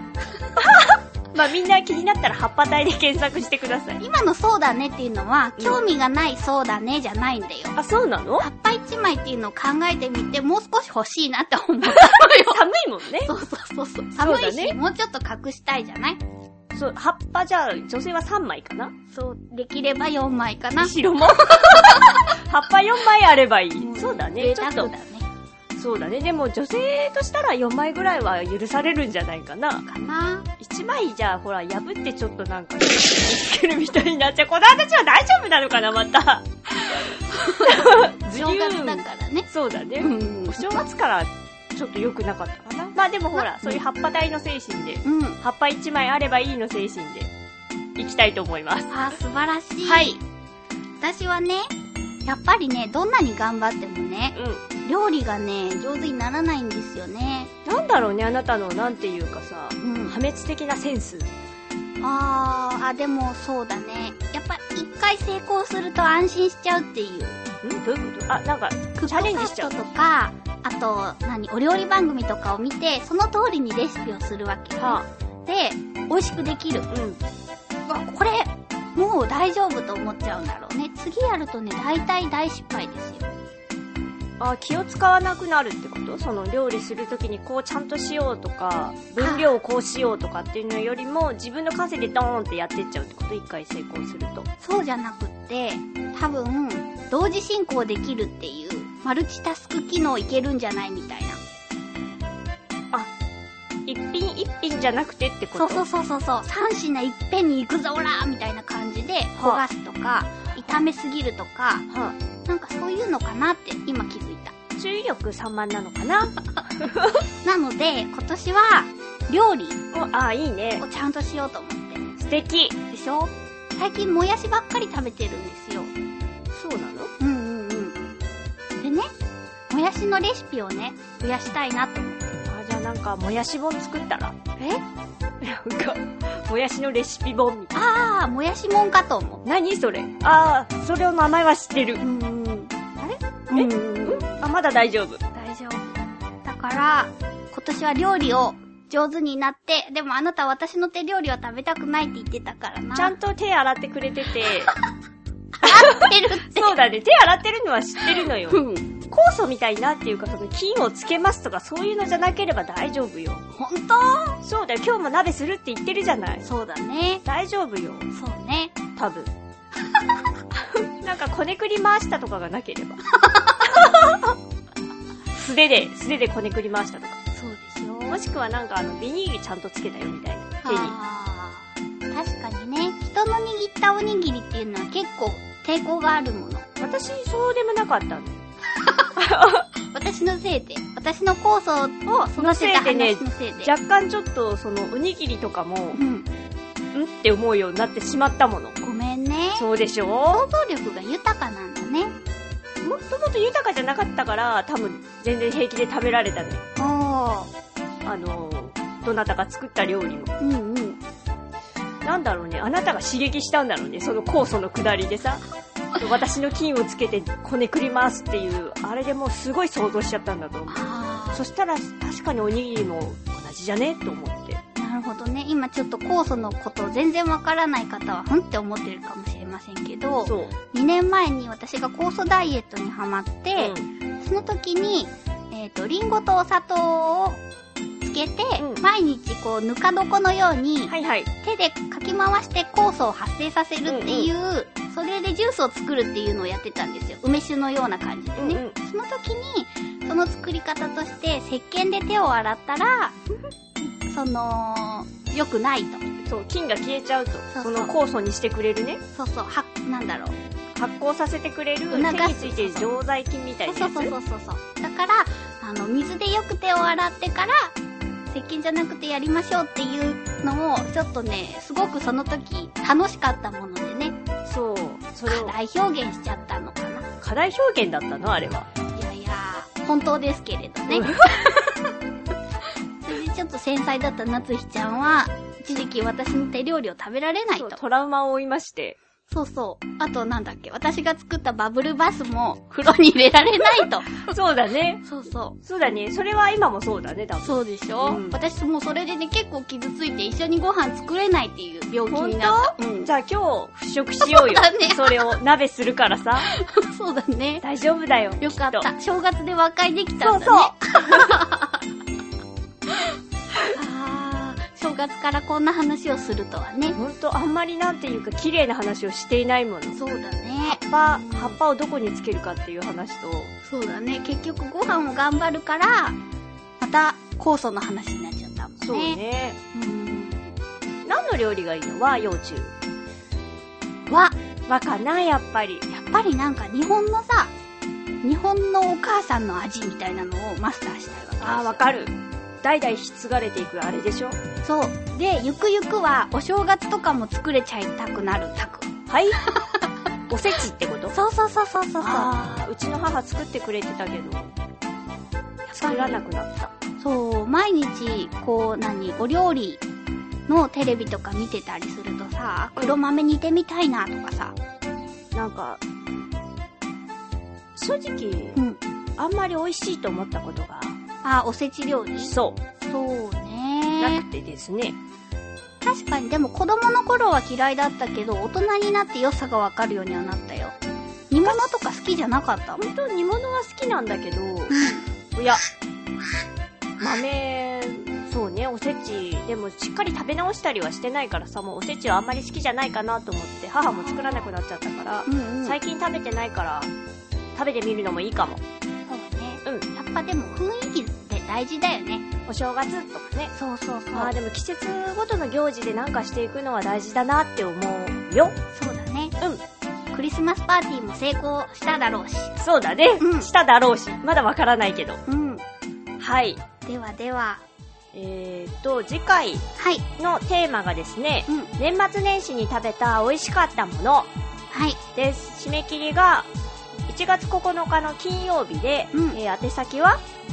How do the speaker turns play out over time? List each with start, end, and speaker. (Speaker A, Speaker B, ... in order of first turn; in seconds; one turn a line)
Speaker A: 0.6-4.0
Speaker B: 4.0-7.8
Speaker A: 7.8-8.5
Speaker B: 8.4-12.7
Speaker A: 11.9-13.3
Speaker B: 13.2-16.2
Speaker A: 14.2-14.8
Speaker A: 16.7-18.9
Speaker B: 19.1-22.3
Speaker A: 20.8-24.9
Speaker B: 23.8-25.3
Speaker A: 25.8-29.9
Speaker B: 29.9-30.5
Speaker A: 30.6-47.3
Speaker B: 36.9-39.5
Speaker B: 40.0-40.8
Speaker B: 42.7-43.8
Speaker B: 45.0-45.4
Speaker A: 48.0-49.0
Speaker B: 48.9-50.2
Speaker A: 49.8-50.2
Speaker B: 51.0-51.7
Speaker B: 52.3-57.5
Speaker A: 54.4-54.6
Speaker A: 57.6-61.3
Speaker B: 59.8-60.1
Speaker B: 62.0-67.4
Speaker A: 67.6-69.8
Speaker B: 69.0-76.9
Speaker A: 74.8-75.1
Speaker A: 76.9-77.2
Speaker B: 77.9-83.3
Speaker A: 84.4-94.5
Speaker B: 89.2-89.5
Speaker B: 94.6-101.4
Speaker A: 103.9-105.8
Speaker B: 105.5-111.9
Speaker A: 109.4-109.6
Speaker A: 111.9-112.2
Speaker B: 112.5-114.5
Speaker A: 114.8-117.2
Speaker B: 117.4-119.8
Speaker A: 119.9-120.8
Speaker B: 120.8-122.1
Speaker A: 122.2-122.8
Speaker B: 122.9-125.9
Speaker A: 126.5-127.1
Speaker B: 127.2-128.0
Speaker B: 128.8-129.1
Speaker B: 129.7-132.4
Speaker A: 132.5-134.4
Speaker A: 135.4-137.8
Speaker B: 137.7-139.4
Speaker A: 139.4-142.0
Speaker B: 142.0-144.5
Speaker A: 143.5-145.2
Speaker B: 145.3-153.2
Speaker A: 152.9-154.8
Speaker B: 155.6-156.8
Speaker A: 155.6-163.4
Speaker B: 158.4-158.9
Speaker B: 163.6-164.4
Speaker A: 164.4-166.5
Speaker B: 166.4-167.2
Speaker A: 167.2-168.1
Speaker B: 168.1-168.7
Speaker A: 169.0-169.3
Speaker A: 170.5-173.0
Speaker B: 173.1-173.7
Speaker A: 173.7-174.3
Speaker A: 175.3-177.2
Speaker B: 177.3-178.2
Speaker A: 178.1-180.9
Speaker B: 180.6-186.6
Speaker A: 186.8-188.4
Speaker B: 188.7-189.2
Speaker A: 189.2-189.7
Speaker B: 189.9-193.7
Speaker A: 192.4-196.0
Speaker B: 195.9-196.3
Speaker A: 196.9-198.8
Speaker B: 198.8-199.7
Speaker A: 199.6-200.4
Speaker B: 200.3-202.1
Speaker A: 202.8-206.6
Speaker B: 206.8-207.5
Speaker A: 208.1-210.3
Speaker B: 210.4-211.0
Speaker A: 212.0-215.4
Speaker A: 216.0-224.6
Speaker B: 220.7-221.4
Speaker B: 224.8-237.4
Speaker A: 230.2-230.5
Speaker A: 233.6-233.9
Speaker B: 238.0-253.2
Speaker A: 238.6-238.8
Speaker A: 240.9-241.3
Speaker A: 243.9-244.3
Speaker A: 248.4-248.8
Speaker B: 254.0-256.0
Speaker A: 256.2-259.0
Speaker B: 257.5-257.9
Speaker B: 259.1-260.4
Speaker A: 260.8-264.1
Speaker B: 261.9-263.0
Speaker B: 263.7-267.7
Speaker B: 268.3-274.2
Speaker A: 274.4-275.6
Speaker B: 275.3-277.1
Speaker A: 277.2-278.7
Speaker B: 278.9-281.9
Speaker A: 280.9-281.2
Speaker B: 283.0-287.8
Speaker A: 287.5-289.0
Speaker B: 289.3-294.3
Speaker A: 294.2-295.1
Speaker B: 295.1-295.6
Speaker A: 295.6-298.4
Speaker B: 297.4-303.1
Speaker A: 302.1-306.5
Speaker B: 304.3-305.4
Speaker B: 306.4-307.6
Speaker A: 307.6-308.9
Speaker B: 308.4-311.8
Speaker A: 310.2-311.4
Speaker B: 313.6-317.0
Speaker A: 317.0-320.0
Speaker B: 319.9-321.6
Speaker A: 320.6-323.5
Speaker B: 323.6-326.2
Speaker B: 326.8-329.2
Speaker A: 328.8-329.6
Speaker B: 329.7-330.5
Speaker A: 331.1-332.7
Speaker B: 334.1-334.4
Speaker A: 334.7-335.9
Speaker B: 335.9-337.5
Speaker B: 338.2-341.8
Speaker A: 341.4-344.4
Speaker B: 344.6-348.9
Speaker A: 349.1-349.4
Speaker B: 349.4-349.9
Speaker A: 350.3-351.1
Speaker B: 351.1-352.4
Speaker A: 352.0-354.5
Speaker B: 355.7-356.2
Speaker A: 355.7-356.7
Speaker B: 357.0-359.8
Speaker B: 360.5-364.6
Speaker A: 365.3-365.8
Speaker A: 367.8-368.6
Speaker A: 369.2-371.0
Speaker B: 371.2-374.2
Speaker A: 372.2-372.6
Speaker A: 374.0-375.0
Speaker B: 375.8-380.8
Speaker B: 381.3-382.9
Speaker A: 381.4-381.8
Speaker A: 382.8-385.6
Speaker B: 384.7-385.0
Speaker A: 387.0-396.9
Speaker B: 393.9-394.5
Speaker B: 395.3-395.8
Speaker A: 397.6-398.6
Speaker B: 399.1-402.2
Speaker A: 402.5-403.5
Speaker B: 403.5-404.3
Speaker A: 404.1-408.5
Speaker B: 408.7-409.4
Speaker B: 410.1-412.5
Speaker A: 412.6-415.2
Speaker B: 413.2-413.5
Speaker B: 415.3-415.6
Speaker A: 416.2-416.6
Speaker B: 416.9-417.6
Speaker A: 418.1-419.6
Speaker B: 419.8-420.1
Speaker A: 420.2-424.3
Speaker B: 424.7-425.0
Speaker A: 425.1-426.5
Speaker A: 427.1-430.2
Speaker B: 429.1-429.4